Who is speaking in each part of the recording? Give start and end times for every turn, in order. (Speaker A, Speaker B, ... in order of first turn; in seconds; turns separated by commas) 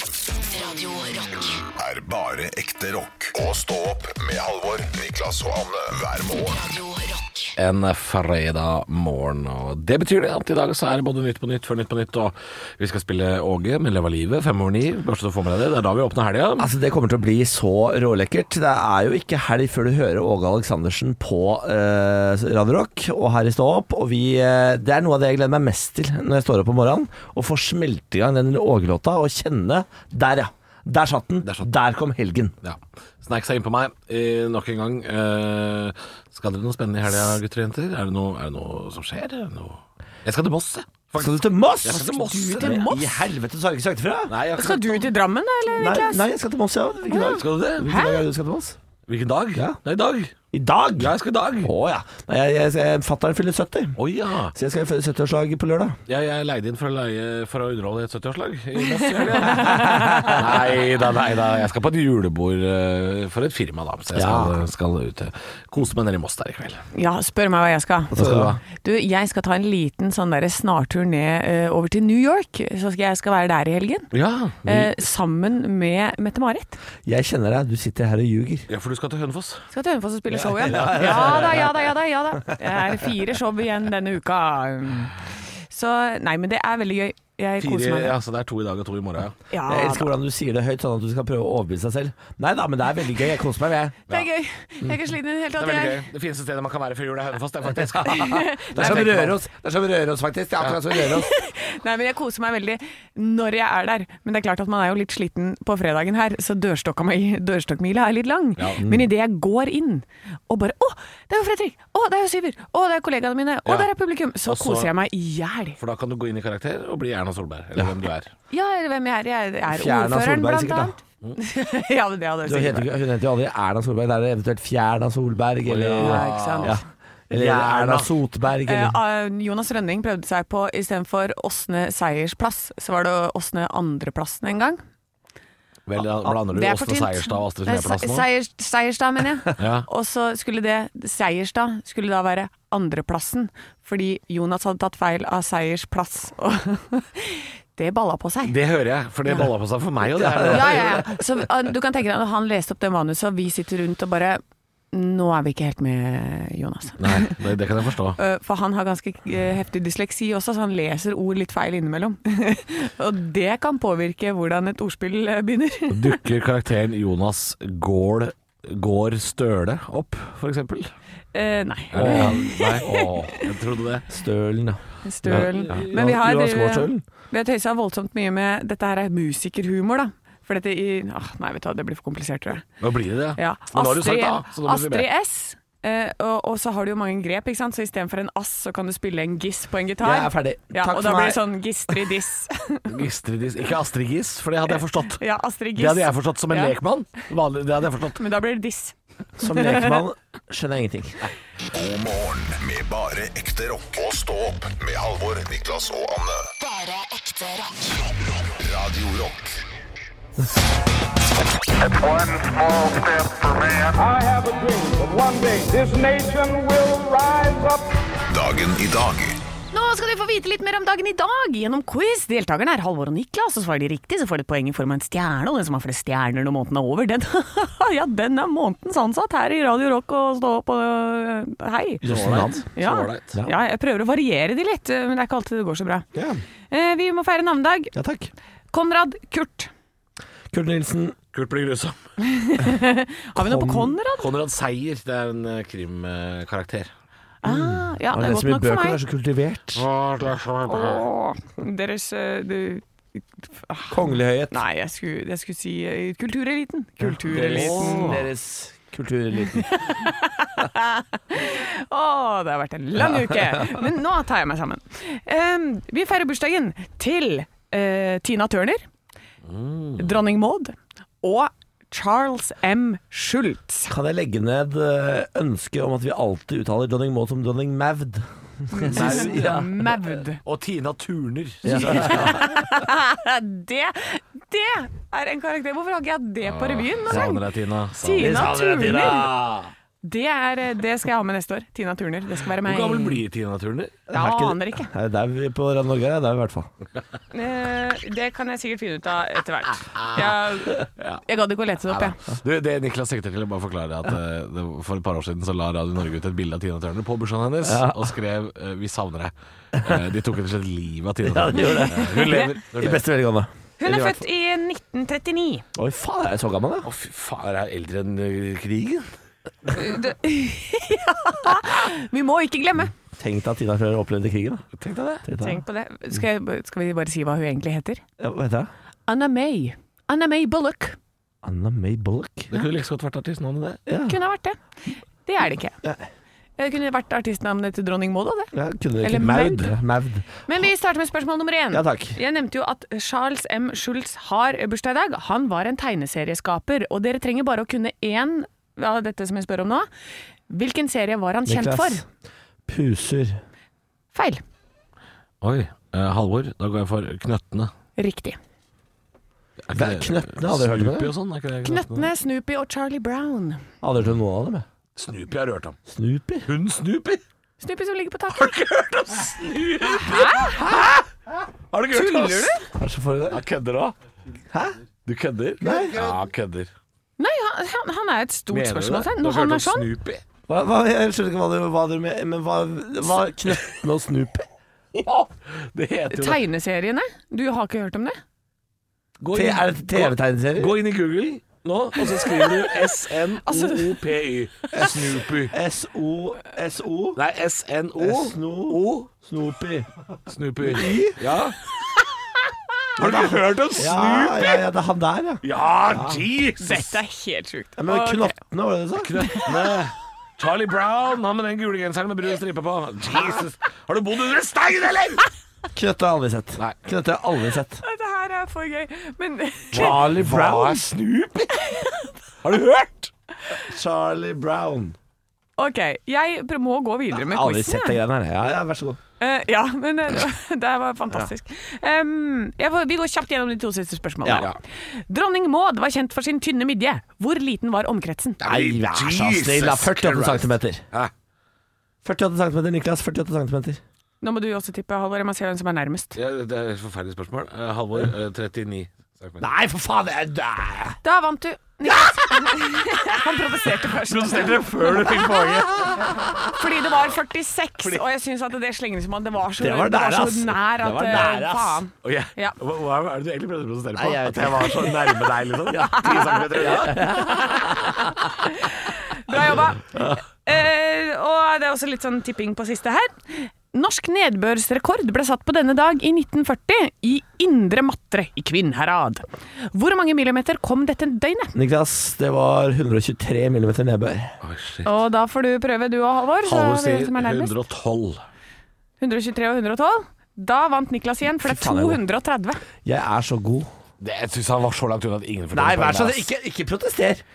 Speaker A: 0.3-1.6, Speaker B: 1.8-6.6, Speaker A: 6.5-7.5, Speaker C: 7.6-16.7, Speaker D: 16.6-32.5, Speaker C: 32.6-42.8, Speaker D: 41.2-44.3, Speaker E: 42.2-43.3, Speaker C: 44.3-45.1, Speaker E: 44.6-46.3, Speaker D: 45.8-48.8, Speaker E: 47.1-48.2, Speaker C: 47.3-47.9, Speaker C: 49.1-50.3, Speaker D: 50.5-54.0, Speaker C: 51.0-51.7, Speaker C: 54.0-54.5, Speaker D: 54.5-56.0, Speaker C: 56.1-66.8, Speaker E: 59.4-60.4, Speaker D: 59.4-60.5, Speaker D: 64.2-64.6, Speaker E: 66.9-68.1, Speaker D: 68.1-68.6, Speaker C: 68.2-68.6, Speaker E: 68.7-74.1, Speaker C: 74.1-74.8, Speaker E: 74.6-76.8, Speaker D: 77.0-78.7, Speaker C: 78.7-79.7, Speaker E: 79.7-85.2, Speaker C: 80.3-81.8, Speaker D: 80.7-81.7, Speaker E: 85.7-88.2, Speaker C: 87.6-89.3, Speaker E: 89.5-90.1, Speaker D: 89.7-94.0, Speaker E: 94.1-96.0, Speaker C: 95.6-99.4, Speaker D: 98.0-101.3, Speaker E: 98.1-99.1, Speaker E: 101.0-115.8, Speaker D: 108.8-109.1, Speaker C: 114.5-114.9, Speaker C: 115.8-118.3, Speaker E: 118.5-122.9, Speaker D: 119.7-121.0, Speaker D: 122.5-129.0, Speaker C: 125.7-126.8, Speaker E: 126.0-126.8, Speaker C: 127.3-128.1, Speaker E: 128.7-134.8, Speaker C: 135.9-138.3, Speaker E: 136.5-148.6, Speaker C: 139.6-139.9, Speaker C: 148.5-151.1, Speaker D: 150.2-151.1, Speaker E: 150.4-154.4, Speaker E: 154.9-157.4, Speaker C: 157.0-158.2, Speaker E: 158.2-166.2, Speaker C: 165.9-170.9, Speaker E: 171.3-173.5, Speaker C: 171.9-174.1, Speaker D: 171.9-173.2, Speaker D: 174.1-177.0, Speaker E: 175.0-182.7, Speaker C: 175.2-175.9, Speaker C: 182.8-185.1, Speaker E: 183.4-192.9, Speaker D: 190.0-191.4, Speaker C: 192.9-195.2, Speaker E: 194.7-196.8, Speaker C: 195.8-198.2, Speaker E: 198.2-200.0, Speaker D: 199.4-201.3, Speaker B: 201.7-206.5, Speaker A: 206.6-208.0, Speaker B: 208.4-209.6, Speaker F: 211.8-217.9, Speaker B: 218.3-219.4, Speaker E: 219.7-232.2, Speaker D: 232.0-232.6, Speaker C: 232.1-233.4, Speaker E: 232.7-236.1, Speaker D: 236.2-236.4, Speaker E: 236.7-237.9, Speaker D: 237.9-238.3, Speaker E: 238.7-239.7, Speaker D: 240.5-241.2, Speaker C: 241.3-242.0, Speaker E: 242.2-244.3, Speaker D: 243.3-243.9, Speaker C: 244.2-246.9, Speaker E: 247.4-249.0, Speaker D: 247.4-249.9, Speaker C: 249.8-251.0, Speaker E: 250.7-254.0, Speaker D: 253.9-254.6, Speaker E: 254.5-258.2, Speaker D: 257.0-259.8, Speaker C: 257.4-258.2, Speaker E: 259.6-268.9, Speaker C: 269.5-270.1, Speaker E: 270.0-273.9, Speaker D: 273.9-279.7, Speaker E: 278.7-280.4, Speaker C: 278.9-279.5, Speaker C: 280.4-282.5, Speaker D: 281.6-282.4, Speaker E: 281.7-287.4, Speaker C: 286.4-289.7, Speaker E: 287.9-289.3, Speaker D: 288.2-289.5, Speaker E: 290.0-293.2, Speaker C: 292.6-294.0, Speaker D: 294.1-296.7, Speaker E: 294.1-294.9, Speaker E: 297.3-302.2, Speaker C: 299.9-301.2, Speaker C: 301.9-313.0, Speaker D: 307.6-308.1, Speaker D: 311.2-314.2, Speaker E: 312.0-312.4, Speaker E: 313.8-315.6, Speaker D: 315.8-316.9, Speaker C: 316.8-319.1, Speaker E: 319.7-322.9, Speaker D: 323.1-324.6, Speaker C: 324.8-325.2, Speaker D: 325.2-325.6, Speaker E: 325.4-328.0, Speaker D: 328.2-328.7, Speaker E: 329.1-331.0, Speaker D: 331.4-332.5, Speaker C: 332.5-333.8, Speaker D: 333.9-334.2, Speaker E: 334.1-334.6, Speaker E: 335.2-335.8, Speaker E: 336.6-338.5, Speaker D: 338.5-340.6, Speaker E: 339.0-339.7, Speaker C: 339.2-339.7, Speaker E: 340.5-349.9, Speaker D: 341.7-342.2, Speaker E: 350.5-352.0, Speaker D: 351.5-352.1, Speaker D: 352.7-353.4, Speaker E: 354.1-354.4, Speaker C: 355.4-357.7, Speaker E: 358.0-358.4, Speaker C: 359.7-362.1, Speaker D: 359.7-361.1, Speaker E: 361.6-363.6, Speaker D: 363.8-364.6, Speaker C: 365.0-365.8, Speaker D: 365.9-366.5, Speaker C: 366.5-367.2, Speaker E: 367.6-368.5, Speaker C: 368.3-371.1, Speaker E: 370.0-370.7, Speaker C: 371.7-372.5, Speaker E: 371.9-372.6, Speaker D: 372.8-373.4, Speaker C: 373.3-373.9, Speaker D: 374.5-374.8, Speaker C: 375.1-376.7, Speaker D: 375.6-376.1, Speaker E: 377.2-379.9, Speaker C: 378.5-380.2, Speaker D: 380.5-384.5, Speaker C: 384.9-386.4, Speaker E: 386.1-388.2, Speaker C: 389.2-395.5, Speaker D: 389.3-390.7, Speaker E: 392.0-392.8, Speaker E: 393.4-394.0, Speaker D: 394.8-397.2, Speaker C: 397.2-399.1, Speaker D: 398.0-399.9, Speaker C: 400.3-401.6, Speaker D: 400.6-401.3, Speaker C: 403.0-404.6, Speaker D: 403.0-406.2, Speaker C: 405.4-407.0, Speaker E: 406.6-408.4, Speaker D: 407.8-409.2, Speaker C: 409.0-415.3, Speaker D: 415.8-417.8, Speaker E: 417.8-420.0, Speaker D: 419.7-420.9, Speaker C: 419.7-421.5, Speaker E: 421.6-422.1, Speaker C: 422.4-423.1, Speaker D: 423.5-425.0, Speaker E: 425.6-428.0, Speaker D: 427.2-429.0, Speaker E: 429.2-438.4, Speaker C: 438.4-441.1, Speaker D: 438.4-440.8, Speaker D: 442.0-443.8, Speaker E: 444.2-446.2, Speaker C: 446.2-449.5, Speaker D: 449.4-451.0, Speaker E: 451.0-455.4, Speaker D: 451.9-452.5, Speaker C: 454.1-456.2, Speaker D: 455.8-456.4, Speaker E: 456.5-462.6, Speaker D: 459.6-461.8, Speaker C: 462.0-468.0, Speaker D: 464.0-468.1, Speaker E: 466.0-466.4, Speaker E: 468.2-481.6, Speaker D: 469.9-470.2, Speaker D: 481.5-484.3, Speaker C: 484.4-484.9, Speaker E: 484.9-487.5, Speaker C: 486.4-488.2, Speaker E: 489.0-492.6, Speaker D: 491.4-492.0, Speaker D: 492.8-493.7, Speaker C: 494.0-496.3, Speaker D: 495.5-497.2